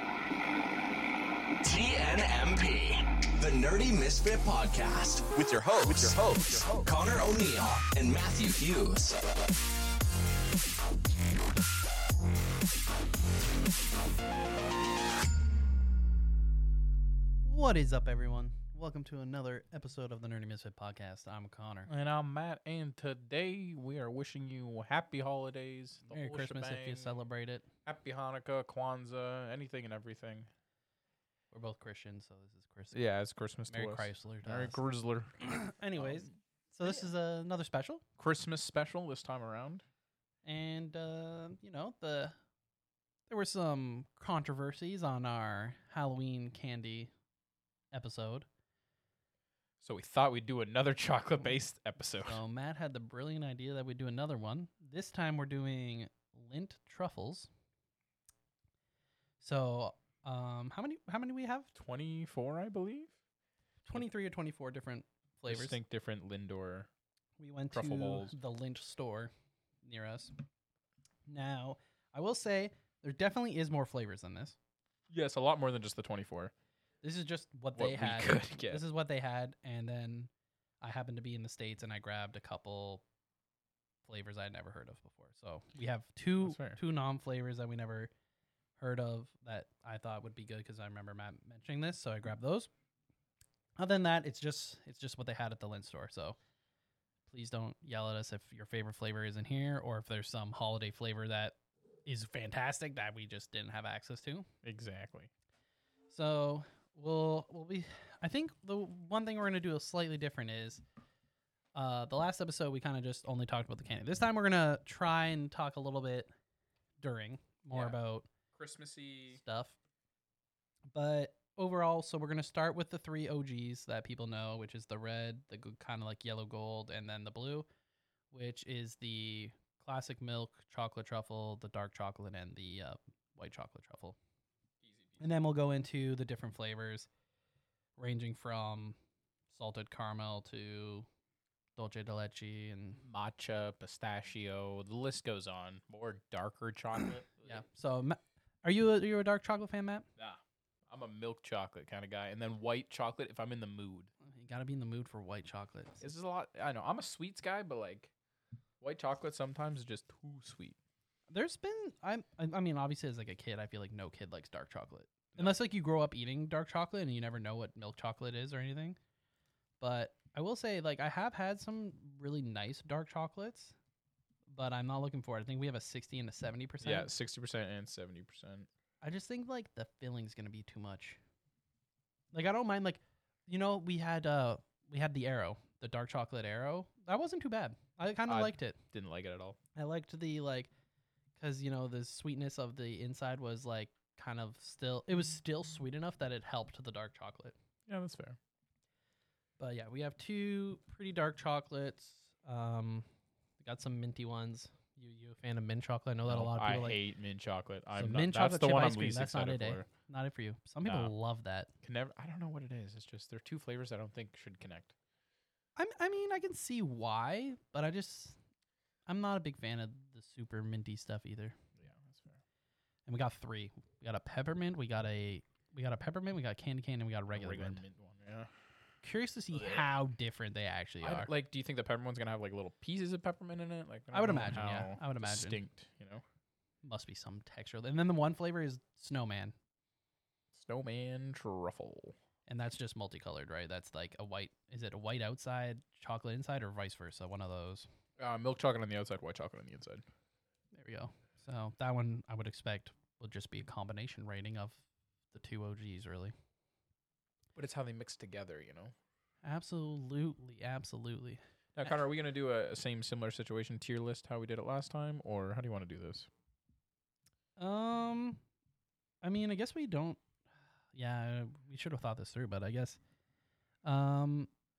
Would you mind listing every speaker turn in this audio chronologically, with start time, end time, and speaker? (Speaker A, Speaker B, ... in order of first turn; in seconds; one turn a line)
Speaker A: 1.6-9.2
Speaker B: 17.4-21.9
Speaker C: 21.9-27.2
Speaker B: 26.1-27.7
Speaker C: 27.8-30.5
Speaker B: 31.5-33.0
Speaker C: 32.9-36.4
Speaker B: 33.7-34.8
Speaker B: 35.4-38.0
Speaker C: 38.2-39.8
Speaker B: 40.4-42.4
Speaker B: 43.3-47.1
Speaker B: 47.9-48.5
Speaker C: 49.8-52.4
Speaker B: 52.2-57.5
Speaker B: 59.4-61.7
Speaker C: 61.7-63.1
Speaker B: 63.8-65.8
Speaker C: 65.5-66.9
Speaker B: 67.4-70.4
Speaker C: 67.7-68.3
Speaker B: 71.3-74.5
Speaker C: 75.1-76.5
Speaker B: 77.0-83.0
Speaker C: 77.7-78.8
Speaker B: 84.0-88.1
Speaker C: 86.4-86.8
Speaker B: 88.8-92.7
Speaker B: 93.8-96.4
Speaker B: 97.3-104.5
Speaker C: 104.6-105.3
Speaker B: 106.1-110.8
Speaker B: 111.7-116.3
Speaker B: 117.0-118.3
Speaker C: 117.7-118.0
Speaker C: 118.5-119.4
Speaker B: 119.3-119.7
Speaker B: 120.9-127.7
Speaker B: 128.3-134.2
Speaker C: 134.8-135.2
Speaker B: 135.2-137.1
Speaker B: 138.0-139.0
Speaker B: 139.5-141.1
Speaker B: 141.8-143.0
Speaker C: 143.0-147.6
Speaker B: 147.0-150.1
Speaker C: 150.2-154.1
Speaker B: 154.2-156.1
Speaker C: 156.0-158.1
Speaker C: 158.8-160.8
Speaker B: 161.3-169.0
Speaker B: 169.8-173.8
Speaker B: 174.5-177.1
Speaker C: 176.8-178.7
Speaker B: 179.0-181.2
Speaker B: 182.3-188.8
Speaker C: 188.3-189.6
Speaker B: 189.7-190.7
Speaker B: 191.4-197.5
Speaker C: 197.9-198.4
Speaker B: 199.6-203.1
Speaker B: 203.6-207.0
Speaker C: 206.2-209.9
Speaker B: 207.9-211.7
Speaker C: 210.8-211.1
Speaker C: 211.8-214.9
Speaker B: 215.8-218.4
Speaker B: 219.1-221.6
Speaker C: 221.8-222.4
Speaker B: 223.1-227.8
Speaker C: 227.3-228.5
Speaker B: 229.0-231.3
Speaker C: 229.5-229.8
Speaker C: 231.0-236.2
Speaker B: 234.1-235.6
Speaker B: 236.8-239.5
Speaker C: 240.5-242.2
Speaker B: 242.4-247.9
Speaker C: 248.2-250.0
Speaker B: 250.7-256.3
Speaker C: 257.5-258.9
Speaker B: 259.4-262.0
Speaker C: 261.7-266.3
Speaker B: 267.6-268.4
Speaker B: 269.2-270.2
Speaker B: 270.9-273.0
Speaker B: 273.8-274.5